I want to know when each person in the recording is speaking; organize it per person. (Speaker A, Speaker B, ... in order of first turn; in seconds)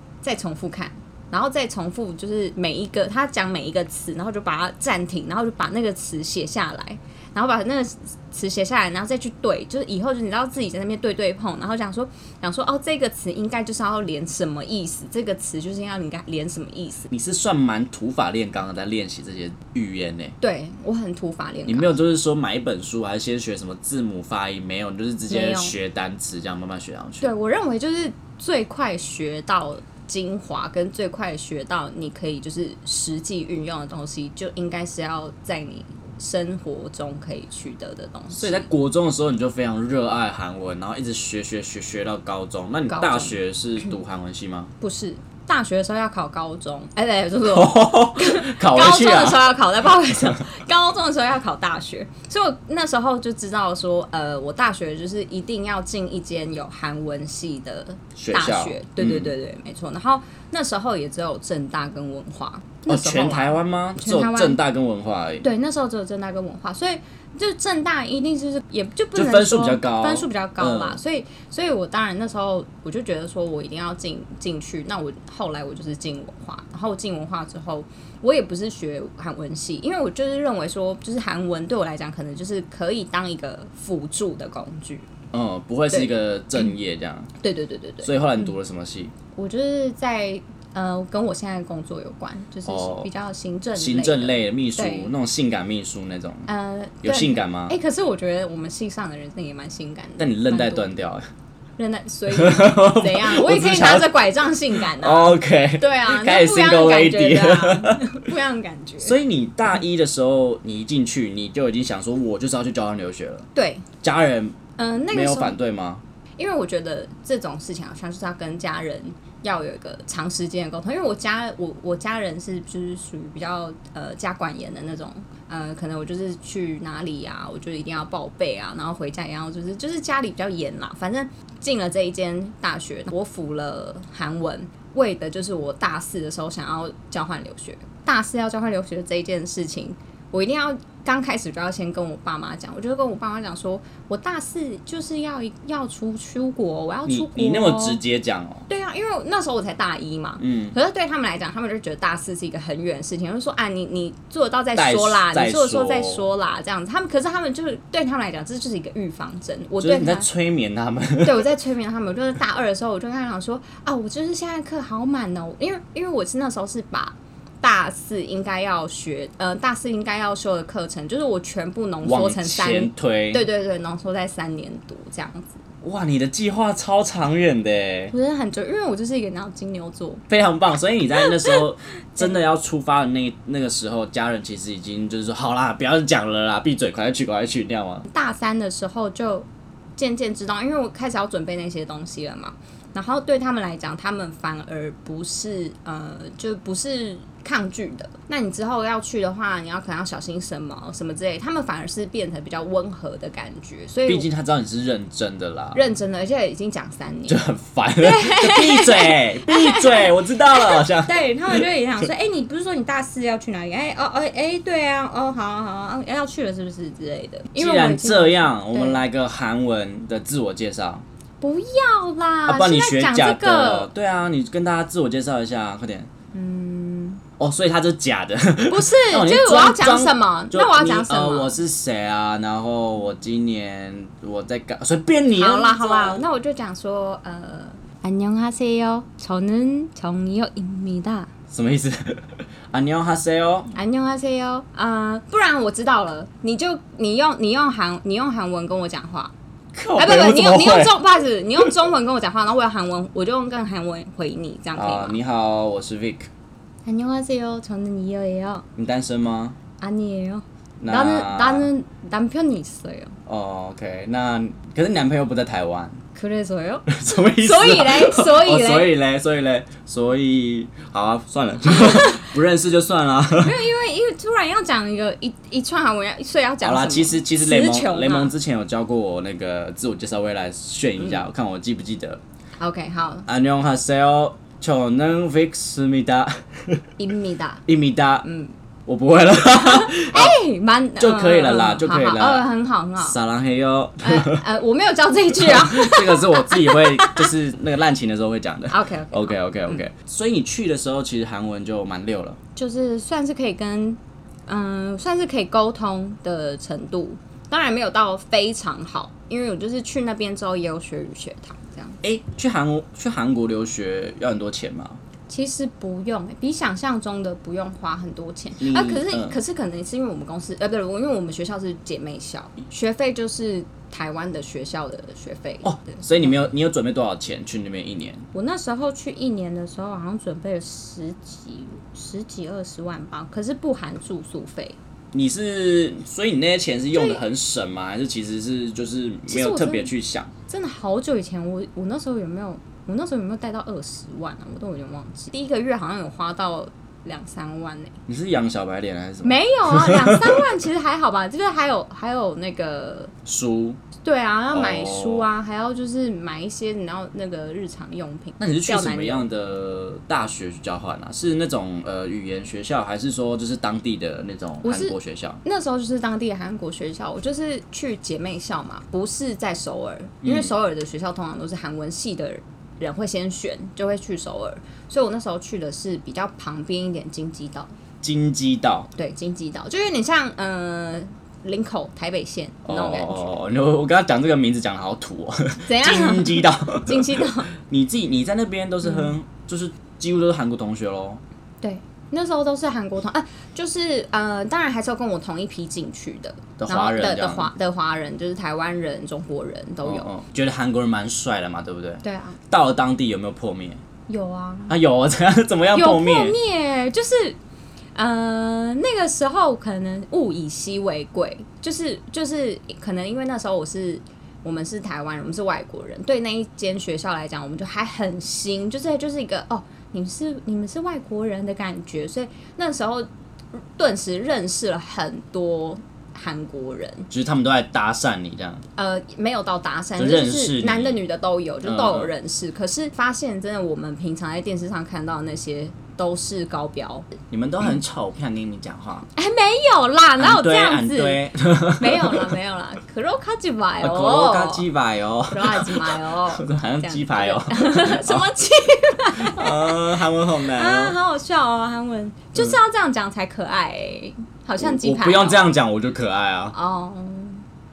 Speaker A: 0.2-17.1, 20.4-21.9, 25.3-25.8, 27.2-38.7, 42.9-44.0, 44.8-64.6, 65.4-85.1, 85.9-86.7, 87.4-88.5, 89.3-95.1, 96.5-100.9, 101.8-109.2, 113.5-113.9, 114.8-115.5, 116.4-148.0, 148.7-160.3, 161.2-175.6, 178.1-180.2, 188.1-189.5, 190.0-204.3, 205.7-207.4, 208.0-219.0, 221.4-223.9, 226.3-227.2, 228.7-231.5, 235.3-241.3, 243.7-249.3, 250.0-255.2, 256.9-258.6, 259.8-263.1, 266.1-268.9, 271.6-272.3, 273.4-278.3, 282.6-283.2, 287.0-287.6, 288.2-288.5, 289.5-293.1, 294.0-297.3, 298.7-299.8, 302.6-312.0, 315.3-326.4, 328.3-334.8, 336.9-337.2, 339.3-339.9, 340.5-348.0, 349.2-353.1, 354.0-359.2, 364.6-377.7, 379.0-383.4, 385.6-387.5, 388.8-389.1, 391.6-400.1, 402.0-402.4, 404.1-404.8, 405.7-407.4, 407.9-427.1, 428.8-437.1, 439.1-444.7, 445.3-455.5, 456.5-457.4
Speaker B: 17.1-20.4, 21.7-27.3, 38.3-44.7, 47.4-50.4, 58.1-59.3, 62.9-65.5, 69.1-71.0, 85.3-87.3, 88.0-89.1, 92.6-93.1, 93.8-96.5, 97.0-97.8, 100.2-101.2, 102.3-104.2, 104.8-108.2, 109.0-113.5, 114.0-114.6, 115.1-116.0, 147.1-148.7, 150.4-150.8, 154.8-156.3, 159.8-161.4, 172.0-173.4, 175.8-178.1, 180.3-188.0, 204.1-205.8, 207.3-212.0, 217.6-221.0, 222.5-226.1, 227.4-236.2, 241.5-243.7, 249.7-251.0, 254.8-256.3, 258.8-259.6, 260.8-261.7, 263.2-266.0, 266.9-273.6, 276.6-282.2, 283.3-286.8, 287.6-288.2, 288.9-290.4, 291.0-292.5, 293.0-294.4, 295.3-302.4, 312.0-315.0, 318.6-319.4, 325.6-328.2, 335.1-340.3, 348.1-350.4, 353.2-353.8, 354.5-355.3, 358.4-365.4, 370.2-370.5, 378.0-378.9, 382.6-391.2, 396.6-397.5, 399.8-403.8, 404.7-406.4, 427.1-428.6, 430.0-431.0, 431.6-432.1, 437.3-439.1, 440.2-442.3, 443.8-448.3, 449.1-451.0, 454.6-456.5